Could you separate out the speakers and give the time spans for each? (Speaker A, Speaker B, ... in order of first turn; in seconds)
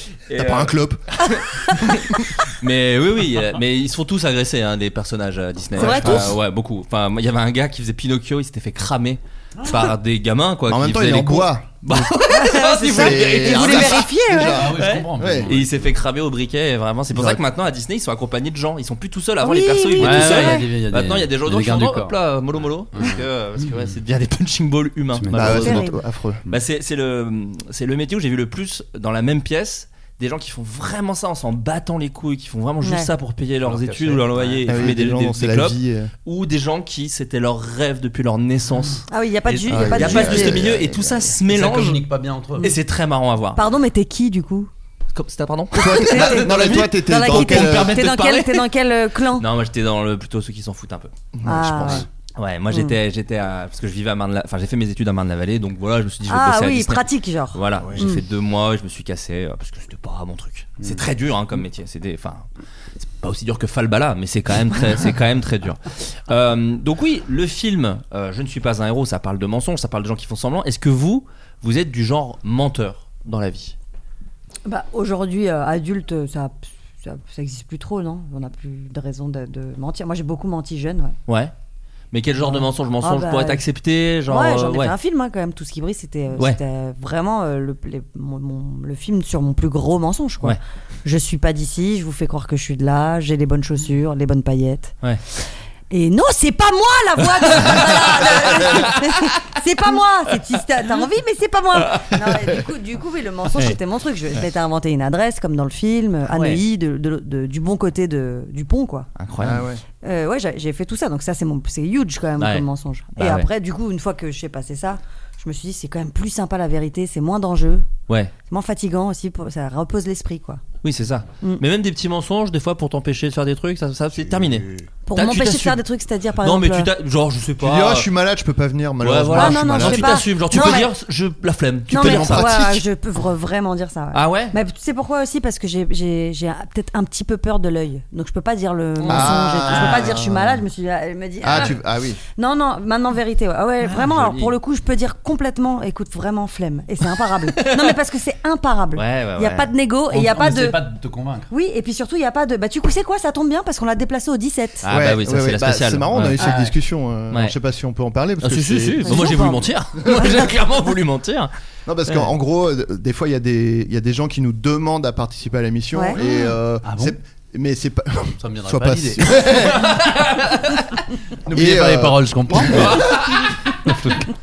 Speaker A: 0.3-25.9, 26.5-42.0, 42.6-43.6, 45.1-48.7, 49.4-51.1, 51.8-62.5, 63.0-73.8, 81.3-81.5, 82.1-84.9, 97.5-99.3, 101.8-102.6, 106.3-106.6, 109.2-109.6, 112.4-112.6, 113.2-113.5, 120.8-125.8, 126.4-128.1, 129.0-132.5, 134.1-134.6, 139.0-140.2, 141.5-141.8, 143.8-144.6, 147.5-147.9, 148.9-149.7, 154.8-156.5, 157.3-157.6, 158.4-161.5, 169.8-170.9, 172.7-173.5
Speaker B: 0.3-1.0, 5.8-6.4, 10.7-12.1, 12.8-15.6, 25.3-26.4, 34.7-36.1, 39.7-41.4, 45.8-48.0, 51.3-52.1, 57.8-58.1, 109.4-109.8, 124.3-124.8, 127.6-130.2, 131.9-132.8, 139.1-140.5, 141.4-142.2, 154.9-159.5, 160.0-160.5, 161.9-169.9, 171.5-173.1
Speaker C: 5.8-6.2, 12.3-14.6, 19.4-20.7, 25.6-26.0, 32.8-33.1, 39.1-40.6, 43.5-44.7, 45.8-49.5, 51.5-52.1, 56.3-58.2, 74.7-81.2, 82.5-83.6, 84.3-94.9, 95.9-109.1, 110.0-117.9, 118.5-120.6, 125.1-126.9, 129.3-130.9, 131.9-141.8, 142.4-150.8, 151.5-154.9, 159.1-159.7
Speaker D: 9.6-9.9, 14.5-15.7, 20.0-22.1, 25.1-25.8, 33.6-35.0, 41.5-42.7, 150.1-151.5, 156.4-156.7, 166.8-167.2, 168.4-169.4, 171.5-173.2, 173.8-174.3